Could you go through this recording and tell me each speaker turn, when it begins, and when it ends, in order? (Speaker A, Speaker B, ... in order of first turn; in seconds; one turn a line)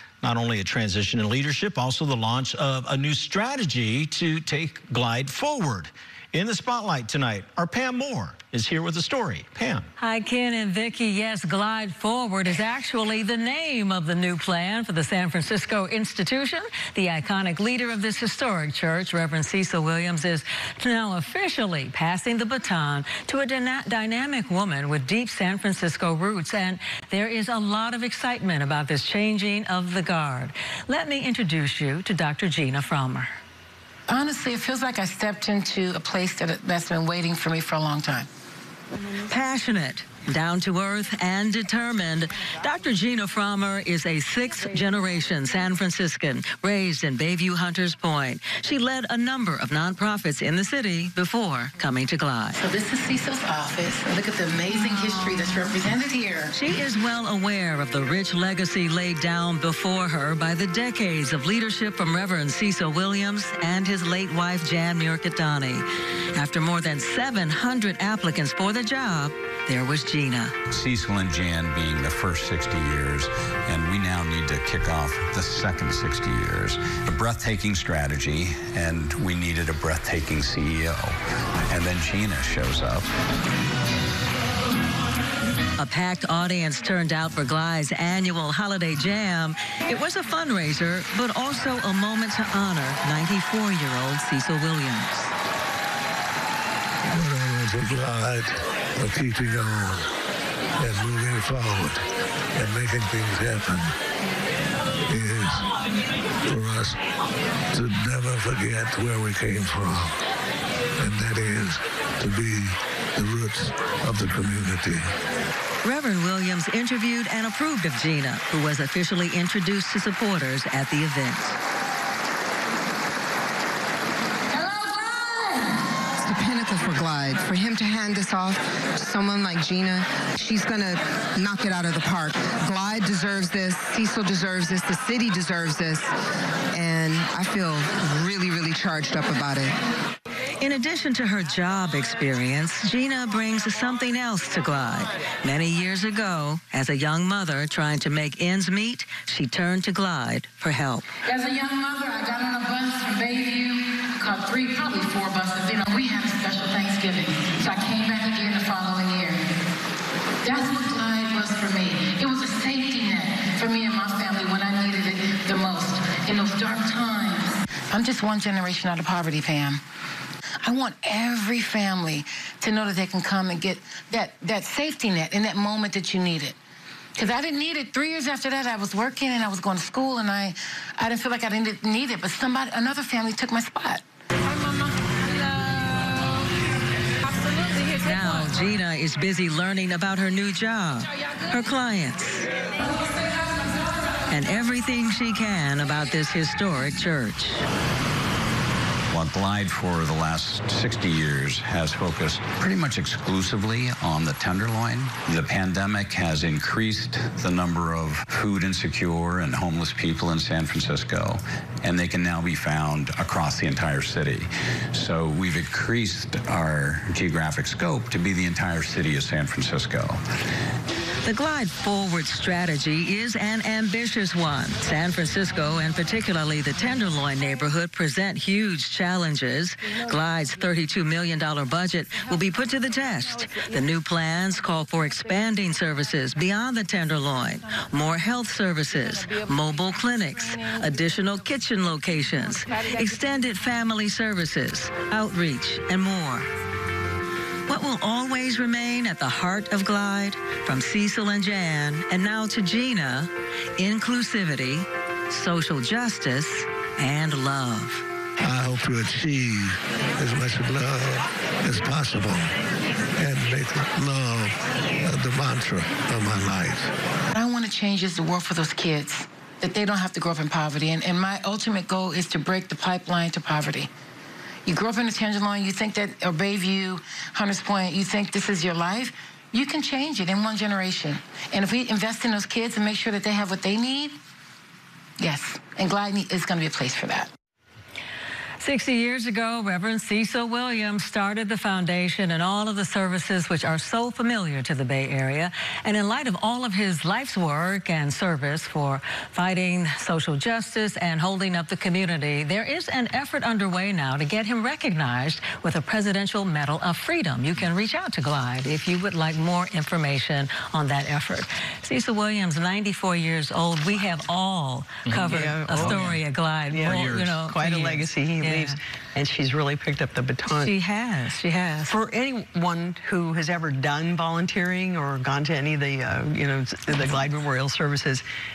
Speaker A: 0.2-9.9
Speaker B: 10.0-33.3
Speaker C: 34.1-38.3
Speaker B: 39.3-52.6
Speaker C: 52.6-56.5
Speaker B: 56.5-65.8
Speaker B: 66.3-70.5
Speaker D: 70.7-81.1
Speaker D: 81.7-83.1
Speaker B: 85.8-95.3
Speaker E: 97.1-100.1
Speaker E: 100.8-102.0
Speaker E: 102.5-103.9
Speaker E: 105.1-105.7
Speaker E: 106.5-107.0
Speaker E: 107.7-110.2
Speaker E: 111.0-115.0
Speaker B: 115.8-121.5
Speaker C: 124.5-125.8
Speaker F: 126.2-136.1
Speaker F: 136.7-139.7
Speaker B: 140.6-151.1
Speaker C: 151.2-159.4
Speaker C: 160.4-169.8
Speaker C: 170.6-176.6
Speaker C: 177.2-184.0
Speaker B: 185.6-185.8
Speaker B: 187.8-192.5
Speaker B: 194.3-197.6
Speaker D: 199.1-220.2
Speaker B: 221.2-246.5
Speaker B: 247.7-258.0
Speaker E: 258.4-262.5
Speaker E: 263.2-266.9
Speaker C: 267.3-273.9
Speaker C: 274.6-284.2
Speaker C: 285.2-287.3
Speaker B: 288.6-318.8
Speaker A: 315.1-316.2
Speaker G: 315.3-316.2
Speaker G: 316.7-320.7
Speaker A: 316.8-317.3
Speaker B: 320.6-321.9
Speaker G: 321.9-328.2